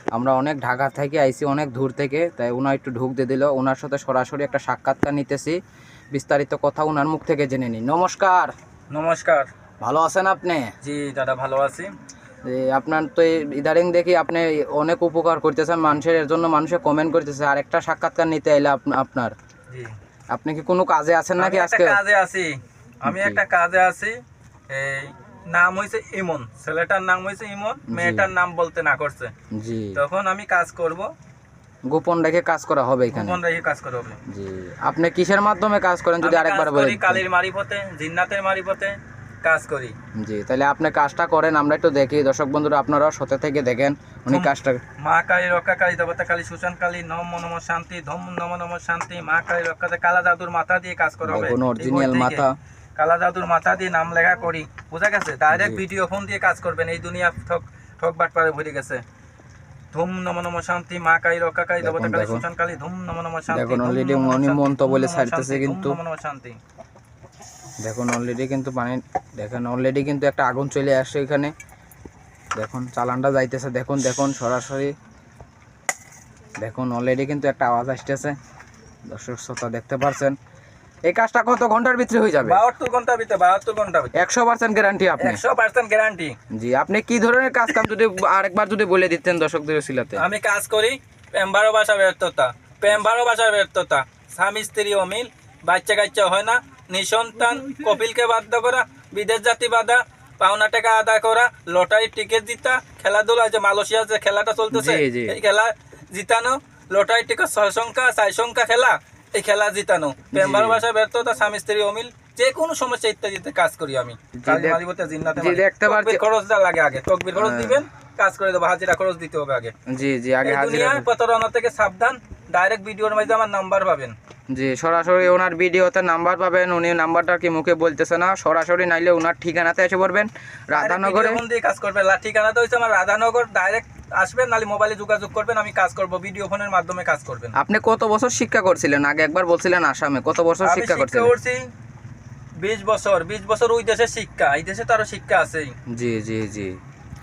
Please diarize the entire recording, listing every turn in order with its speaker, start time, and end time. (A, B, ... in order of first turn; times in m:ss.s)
0:00.1-0:05.6 A
0:06.1-0:08.5 A
0:08.9-0:09.5 B
0:09.8-0:10.7 A
0:10.8-0:11.9 B
0:12.4-0:19.3 A
0:20.3-0:22.0 A
0:21.4-0:24.2 B
0:23.0-0:23.4 A
0:24.7-0:29.3 B
0:27.9-0:28.3 A
0:29.5-0:30.0 A
0:30.0-0:31.1 B
0:31.9-0:33.4 A
0:33.1-0:34.2 B
0:34.3-0:37.2 A
0:36.2-0:40.0 B
0:40.2-0:44.8 A
0:44.3-0:52.4 B
0:51.2-0:52.6 A
0:53.0-0:59.0 B
0:55.5-0:55.8 A
0:59.9-1:06.6 B
1:01.8-1:02.4 A
1:03.5-1:06.0 A
1:07.8-1:11.5 A
1:12.6-1:14.9 A
1:16.6-1:18.4 A
1:19.1-1:20.4 A
1:21.1-1:22.6 A
1:22.4-1:24.2 B
1:24.2-1:25.4 A
1:25.2-1:26.4 B
1:26.5-1:30.2 A
1:30.2-1:59.7 B
1:44.7-1:45.4 A
1:50.3-1:50.8 A
1:54.4-1:54.8 A
1:55.4-1:56.2 A
1:57.4-1:57.8 A
1:59.9-2:01.0 A
2:00.4-2:04.2 B
2:04.5-2:11.4 A
2:10.7-2:17.6 B
2:17.6-2:21.3 A
2:20.6-2:21.7 B
2:22.6-2:25.8 B
2:25.9-2:26.7 A